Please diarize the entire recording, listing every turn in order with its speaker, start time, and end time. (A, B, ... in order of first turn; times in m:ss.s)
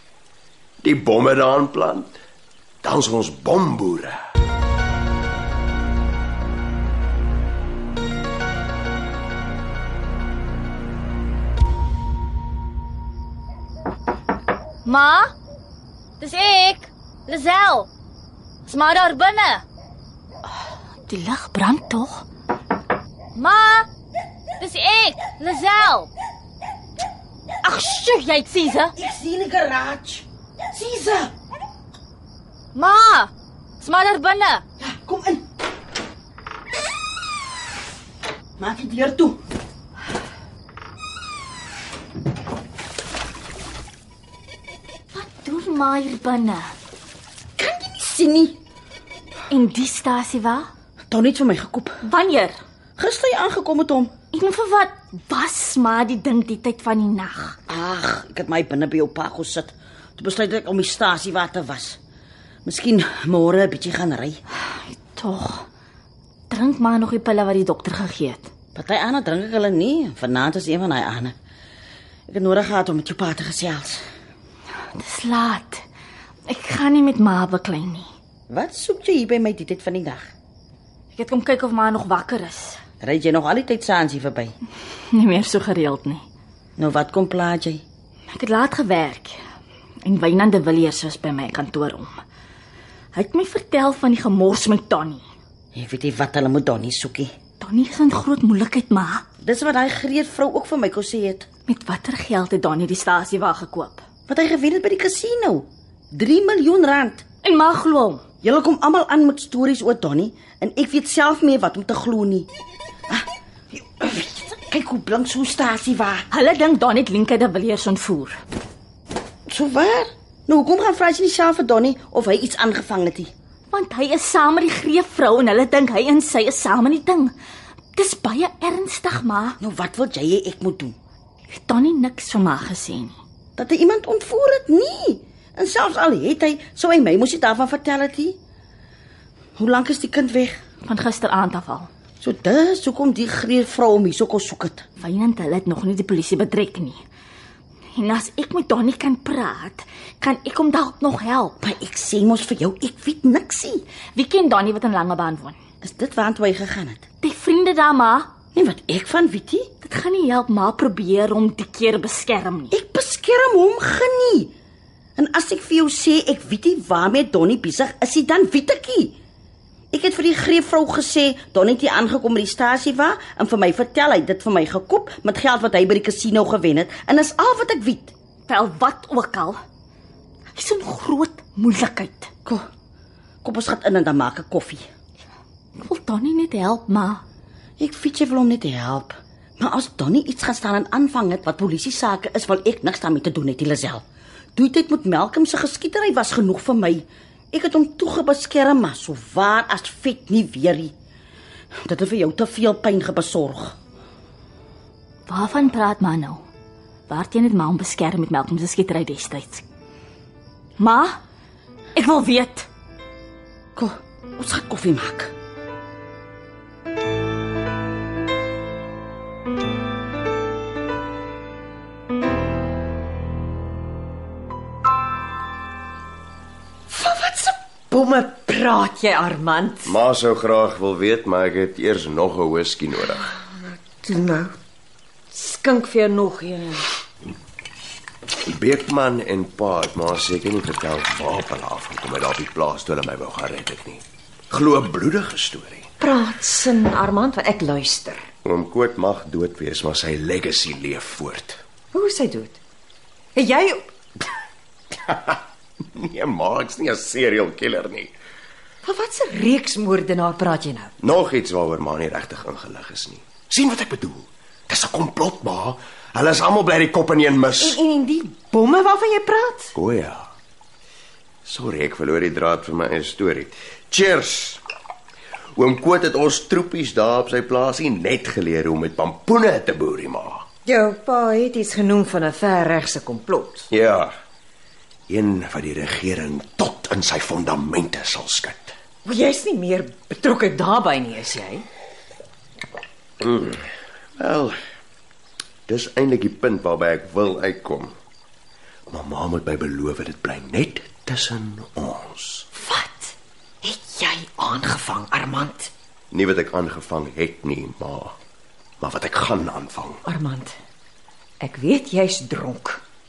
0:00.8-0:02.2 A
0:02.8-0:04.2 A
0:14.8-0:15.3 B
0:16.2-0:17.9 B
0:18.7-0:19.6 B
0:21.1-0:22.2 B
0:23.4-0:23.9 B
0:24.6-0:26.1 B
0:27.6-0:28.9 B
0:29.0-0:31.3 C
0:32.8-0:33.3 B
0:33.8-0:34.6 B
0:34.8-0:35.4 C
0:38.6-0:39.4 C
0:45.1-0:46.7 B
0:47.6-0:48.6 C
0:49.5-0:50.7 B
0:51.1-0:52.0 C
0:52.0-0:52.5 B
0:53.0-0:54.1 C
0:54.3-0:57.6 B
0:57.7-1:02.0 C
1:02.7-1:04.4 C
1:04.7-1:05.6 B
1:06.5-1:08.5 B
1:08.8-1:11.3 C
1:12.3-1:14.0 C
1:14.9-1:15.8 B
1:16.5-1:18.1 B
1:18.5-1:20.3 C
1:21.2-1:22.8 B
1:23.0-1:24.6 C
1:25.1-1:26.2 B
1:26.8-1:27.8 C
1:28.3-1:29.4 B
1:30.0-1:32.2 B
1:33.2-1:35.2 B
1:35.8-1:37.3 C
1:37.6-1:39.2 B
1:39.4-1:41.5 C
1:41.7-1:44.0 B
1:44.3-1:47.2 C
1:47.4-1:48.2 B
1:48.4-1:52.5 C
1:53.1-1:56.3 C
1:56.3-1:58.4 B
1:59.5-2:03.3 C
2:03.7-2:07.3 B
2:08.0-2:09.6 B
2:09.6-2:11.0 C
2:11.5-2:13.2 B
2:13.6-2:18.4 C
2:19.6-2:20.6 C
2:20.8-2:21.9 B
2:22.2-2:24.8 C
2:25.0-2:27.0 B
2:27.9-2:31.6 B
2:31.6-2:33.8 C
2:34.2-2:35.6 B
2:35.8-2:37.0 C
2:37.2-2:38.3 B
2:38.6-2:39.7 C
2:39.8-2:42.8 B
2:42.7-2:44.5 C
2:45.2-2:49.2 C
2:49.9-2:58.1 C
2:58.5-2:59.6 B
3:00.5-3:02.3 B
3:03.4-3:04.8 C
3:05.8-3:07.2 B
3:07.8-3:14.0 C
3:14.6-3:20.9 C
3:21.8-3:23.8 C
3:25.3-3:26.4 B
3:27.1-3:29.6 B
3:30.8-3:31.2 B
3:32.0-3:32.7 B
3:33.8-3:35.3 C
3:46.9-3:50.0 D
3:49.8-3:53.3 A
3:53.6-3:54.6 D
3:55.3-3:56.9 D
3:58.4-4:05.9 A
4:06.0-4:08.2 D
4:08.4-4:11.6 A
4:11.9-4:12.6 D
4:13.4-4:13.9 D
4:14.9-4:18.2 A
4:18.8-4:20.9 D
4:21.0-4:27.8 A
4:27.6-4:29.8 D
4:29.8-4:30.3 A
4:31.4-4:34.6 A
4:35.6-4:40.4 A
4:40.7-4:43.7 D
4:43.7-4:44.1 A
4:45.1-4:48.7 A
4:49.0-4:51.7 D
4:53.2-4:53.6 A
4:54.2-4:54.6 A
4:55.7-4:58.0 A
4:58.9-5:02.5 A
5:02.6-5:05.7 D
5:06.1-5:08.2 A
5:08.8-5:10.0 A
5:10.0-5:10.6 D
5:11.4-5:12.8 D